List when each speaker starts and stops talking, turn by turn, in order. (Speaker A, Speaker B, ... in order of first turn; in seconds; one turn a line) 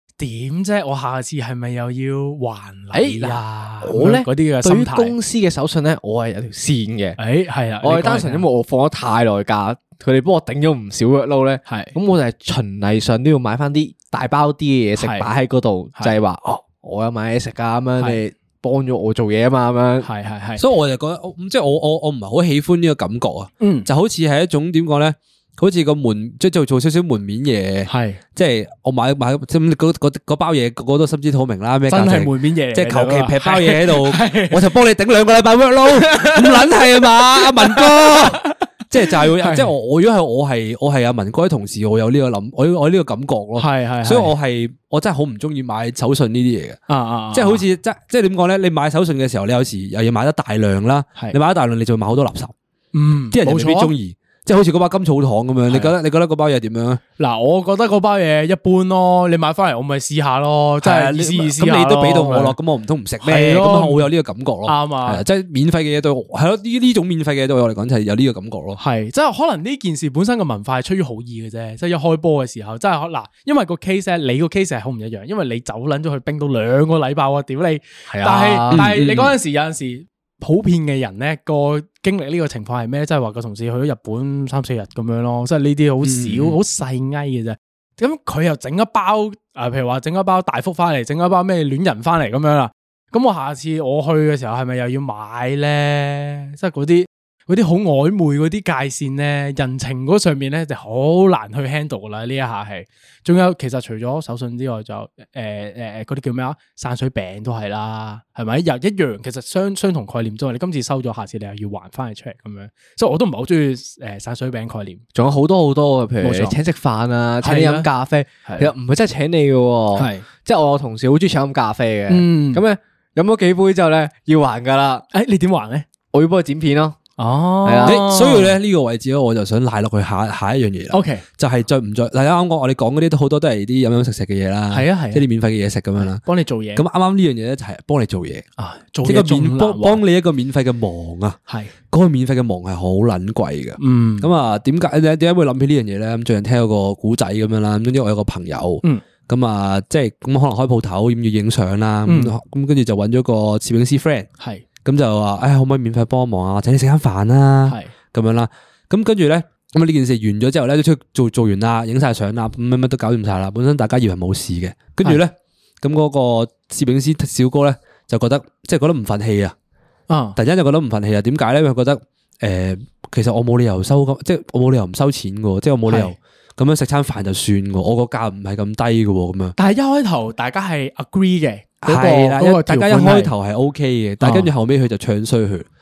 Speaker A: 0.2-5.2
Speaker B: 2.9-7.2
Speaker A: 7.2-8.5
Speaker B: 7.8-20.1
Speaker A: 11.7-11.9
Speaker A: 15.0-15.3
Speaker A: 20.0-20.6
Speaker C: 20.6-46.8
Speaker A: 23.6-23.9
Speaker A: 27.9-28.2
Speaker A: 31.9-34.6
Speaker A: 35.9-39.7
Speaker A: 43.6-44.3
Speaker A: 46.9-47.6
Speaker C: 47.3-52.5
Speaker A: 52.9-53.9
Speaker C: 53.3-57.0
Speaker A: 55.7-55.9
Speaker A: 57.2-62.6
Speaker C: 60.8-68.8
Speaker A: 63.2-64.1
Speaker A: 64.7-65.2
Speaker A: 68.8-115.0
Speaker B: 78.1-79.1
Speaker C: 78.7-79.3
Speaker C: 86.0-86.6
Speaker B: 115.2-125.0
Speaker A: 116.2-116.6
Speaker A: 117.4-117.9
Speaker A: 118.5-118.7
Speaker A: 120.0-120.3
Speaker A: 122.1-122.6
Speaker A: 125.1-125.9
Speaker B: 126.1-127.0
Speaker A: 127.2-128.6
Speaker B: 127.6-128.0
Speaker C: 127.8-136.2
Speaker A: 130.9-131.2
Speaker A: 134.7-135.2
Speaker A: 136.0-136.8
Speaker C: 136.8-138.4
Speaker A: 138.6-140.0
Speaker C: 139.0-141.4
Speaker C: 141.9-154.3
Speaker A: 143.8-144.3
Speaker A: 152.1-152.3
Speaker C: 154.8-169.5
Speaker A: 157.7-157.9
Speaker A: 170.1-170.4
Speaker C: 170.4-179.6
Speaker A: 175.9-176.2
Speaker A: 179.6-183.3
Speaker C: 181.8-185.7
Speaker A: 184.2-184.5